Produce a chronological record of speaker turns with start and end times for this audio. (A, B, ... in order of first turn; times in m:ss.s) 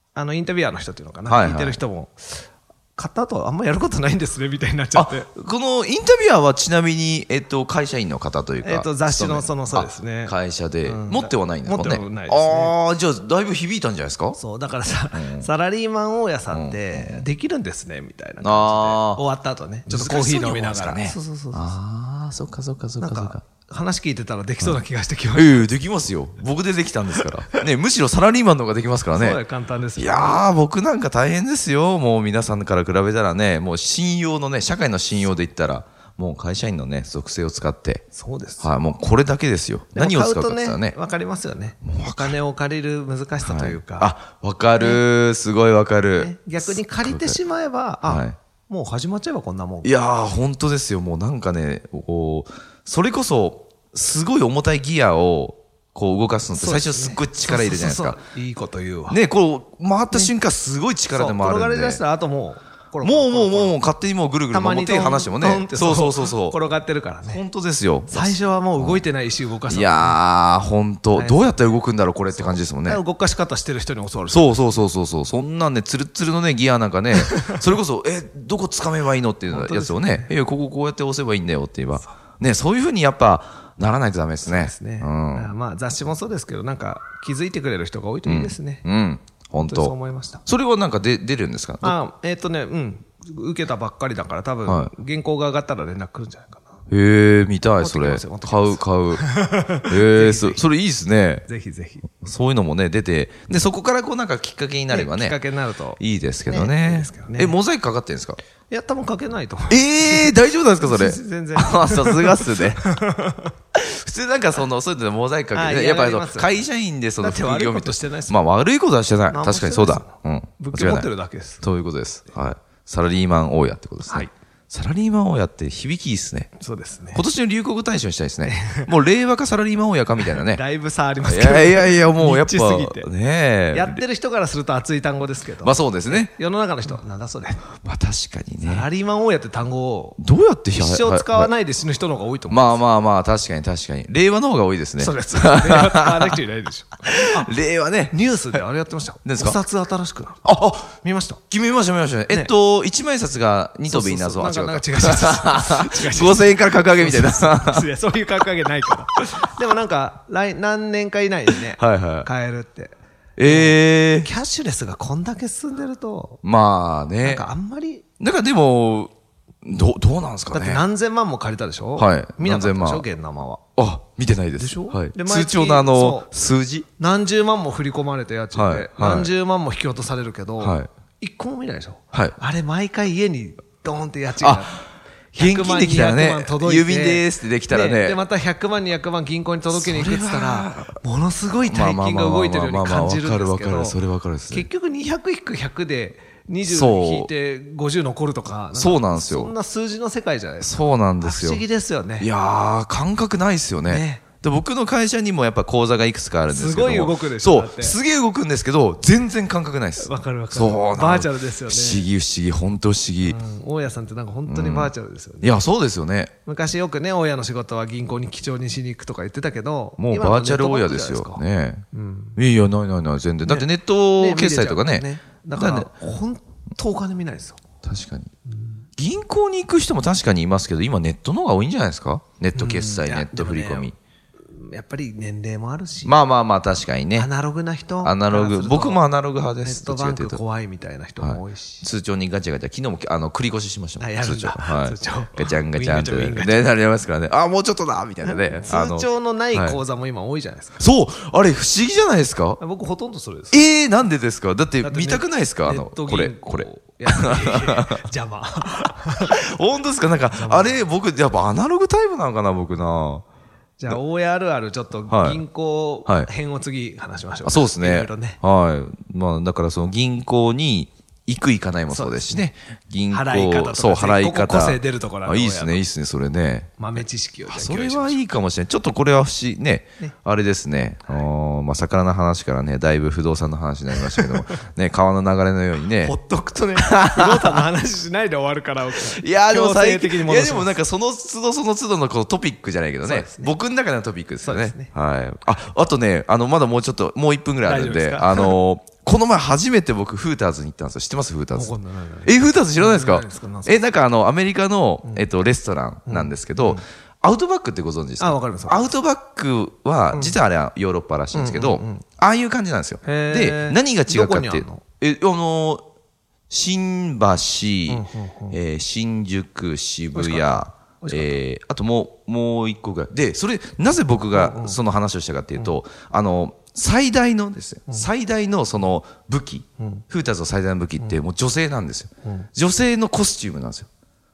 0:00.2-0:05.3 A
0:01.3-0:01.8 B
0:05.0-0:14.4 B
0:08.6-0:10.3 A
0:10.8-0:12.8 A
0:14.4-0:21.8 A
0:15.1-0:15.5 B
0:16.5-0:17.2 B
0:18.4-0:19.2 B
0:19.9-0:23.4 B
0:23.0-0:25.7 A
0:25.3-0:29.4 B
0:29.1-0:30.5 A
0:30.0-0:38.0 B
0:38.1-0:38.7 A
0:38.6-0:41.0 B
0:40.0-0:44.1 A
0:41.8-0:42.4 B
0:43.4-0:47.4 B
0:44.8-0:45.0 A
0:46.2-0:49.9 A
0:48.0-0:48.4 B
0:49.8-0:58.2 B
0:56.5-0:59.2 A
0:59.1-1:02.0 B
1:01.1-1:03.8 A
1:03.0-1:06.6 B
1:04.5-1:07.4 A
1:07.2-1:09.0 B
1:08.1-1:10.2 A
1:09.7-1:13.0 B
1:11.1-1:11.8 A
1:12.3-1:14.5 A
1:14.3-1:25.5 B
1:19.5-1:20.3 A
1:24.4-1:28.8 A
1:28.2-1:29.9 B
1:29.6-1:30.4 A
1:30.5-1:32.0 B
1:31.8-1:36.8 A
1:34.7-1:34.9 B
1:36.9-1:39.2 B
1:37.8-1:40.6 A
1:39.9-1:41.5 B
1:41.5-1:42.2 A
1:42.2-1:45.4 B
1:44.9-1:47.6 A
1:46.0-1:48.4 B
1:48.7-1:53.5 A
1:49.7-1:52.9 B
1:53.8-2:01.1 B
1:55.5-1:56.6 A
1:57.2-1:58.4 A
1:59.3-2:01.6 A
2:01.6-2:06.5 B
2:06.6-2:07.2 A
2:07.1-2:10.6 B
2:08.4-2:08.9 A
2:10.2-2:13.1 A
2:11.2-2:14.0 B
2:13.7-2:17.7 A
2:15.6-2:16.3 B
2:17.8-2:18.9 B
2:18.6-2:20.2 A
2:20.2-2:21.5 B
2:20.7-2:22.8 A
2:22.5-2:26.4 B
2:25.0-2:27.5 A
2:27.0-2:28.6 B
2:28.1-2:31.4 A
2:29.2-2:29.6 B
2:30.4-2:30.9 B
2:31.5-2:37.9 B
2:33.9-2:46.4 A
2:41.8-2:42.3 B
2:43.4-2:44.3 B
2:46.4-2:47.5 B
2:47.2-2:48.0 A
2:48.2-2:49.1 B
2:49.6-2:50.8 B
2:50.5-2:53.6 A
2:52.0-2:53.0 B
2:53.8-2:56.9 B
2:54.6-2:56.3 A
2:57.0-3:04.8 A
2:58.5-2:59.3 B
3:00.6-3:00.9 B
3:04.4-3:04.8 B
3:05.3-3:14.0 A
3:05.4-3:08.2 B
3:09.7-3:11.0 B
3:11.6-3:14.7 B
3:14.5-3:22.3 A
3:16.7-3:17.3 B
3:18.7-3:19.5 B
3:20.6-3:21.6 B
3:22.2-3:33.4 B
3:23.9-3:24.2 A
3:26.5-3:28.0 A
3:30.0-3:32.1 A
3:33.2-3:35.6 A
3:34.5-3:36.3 B
3:36.4-3:42.4 A
3:40.0-3:41.8 B
3:42.4-3:45.9 B
3:43.4-3:47.6 A
3:47.8-3:48.3 B
3:48.5-3:48.8 A
3:49.0-3:54.0 B
3:52.6-3:53.9 A
3:54.5-3:56.2 A
3:56.0-3:57.3 B
3:57.2-3:59.0 A
3:58.0-4:00.4 B
3:59.6-4:01.8 A
4:01.2-4:09.8 B
4:04.0-4:06.6 A
4:08.2-4:10.8 A
4:10.8-4:12.6 B
4:12.6-4:13.6 A
4:13.5-4:18.0 B
4:14.8-4:19.4 A
4:19.2-4:23.2 B
4:20.4-4:20.8 A
4:23.8-4:28.4 A
4:25.1-4:25.4 B
4:27.4-4:46.2 B
4:31.9-4:32.5 A
4:33.1-4:35.9 A
4:36.8-4:38.2 A
4:44.0-4:44.3 A
4:46.0-4:50.7 A
4:46.8-4:47.7 B
4:49.0-5:15.8 B
4:53.0-4:53.5 A
4:54.4-4:54.9 A
4:57.6-4:58.6 A
5:01.6-5:03.8 A
5:06.1-5:06.8 A
5:08.2-5:08.9 A
5:10.1-5:10.4 A
5:11.3-5:12.0 A
5:13.0-5:14.8 A
5:16.5-5:33.9 B
5:17.9-5:18.6 A
5:20.1-5:21.4 A
5:24.3-5:24.8 A
5:29.8-5:30.0 A
5:32.2-5:32.5 A